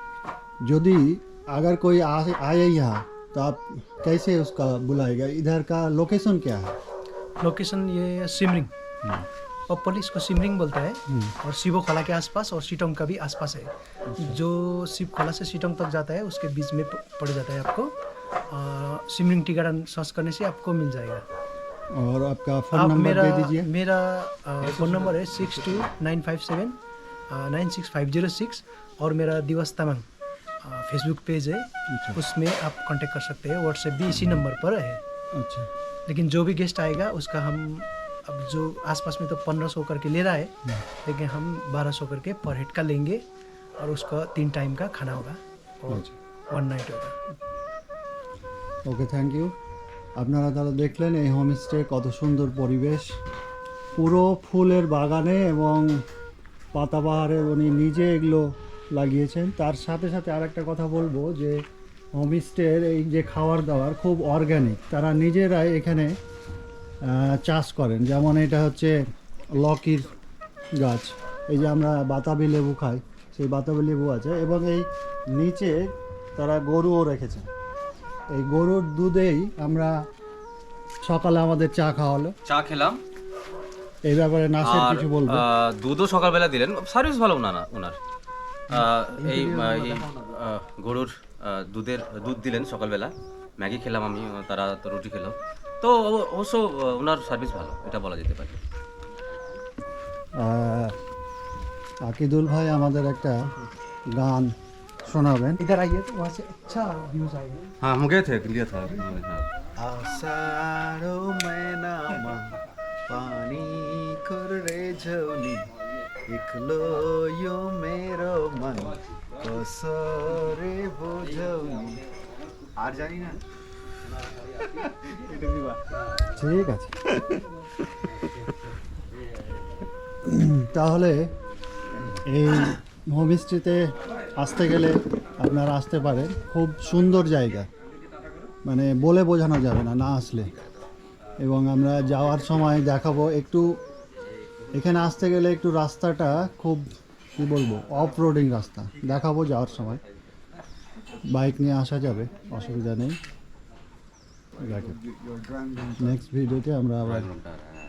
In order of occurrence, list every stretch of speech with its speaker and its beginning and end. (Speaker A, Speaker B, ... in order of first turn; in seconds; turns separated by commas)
Speaker A: 0.6-6.8, Speaker B: 7.4-8.7, Speaker B: 9.7-17.9, Speaker A: 11.1-11.3, Speaker B: 18.5-21.2, Speaker A: 21.9-23.7, Speaker B: 22.7-26.8, Speaker C: 24.6-25.8, Speaker B: 27.3-30.1, Speaker B: 30.6-35.0, Speaker A: 31.9-32.2, Speaker A: 35.4-35.7, Speaker B: 36.1-43.2, Speaker B: 43.8-47.4, Speaker A: 48.9-49.5, Speaker A: 50.2-53.1, Speaker A: 54.0-56.0, Speaker A: 56.7-66.2, Speaker A: 67.0-69.0, Speaker A: 69.5-70.2, Speaker A: 70.8-77.5, Speaker A: 78.3-79.9, Speaker A: 81.0-82.4, Speaker C: 82.5-83.0, Speaker A: 84.1-85.5, Speaker C: 84.6-88.0, Speaker C: 88.7-98.6, Speaker D: 89.1-90.2, Speaker A: 100.4-101.0, Speaker A: 102.0-103.5, Speaker A: 104.2-104.5, Speaker A: 105.1-105.6, Speaker B: 105.6-107.7, Speaker C: 107.8-109.5, Speaker D: 109.8-115.7, Speaker D: 116.3-122.0, Speaker D: 122.8-123.4, Speaker D: 124.8-125.8, Speaker A: 126.3-127.3, Speaker A: 130.2-131.3, Speaker A: 132.1-137.7, Speaker A: 138.7-140.5, Speaker A: 141.4-143.8, Speaker A: 144.7-150.0, Speaker A: 151.3-153.2, Speaker A: 154.6-155.0, Speaker D: 155.1-156.1, Speaker A: 156.0-157.3, Speaker C: 157.1-157.7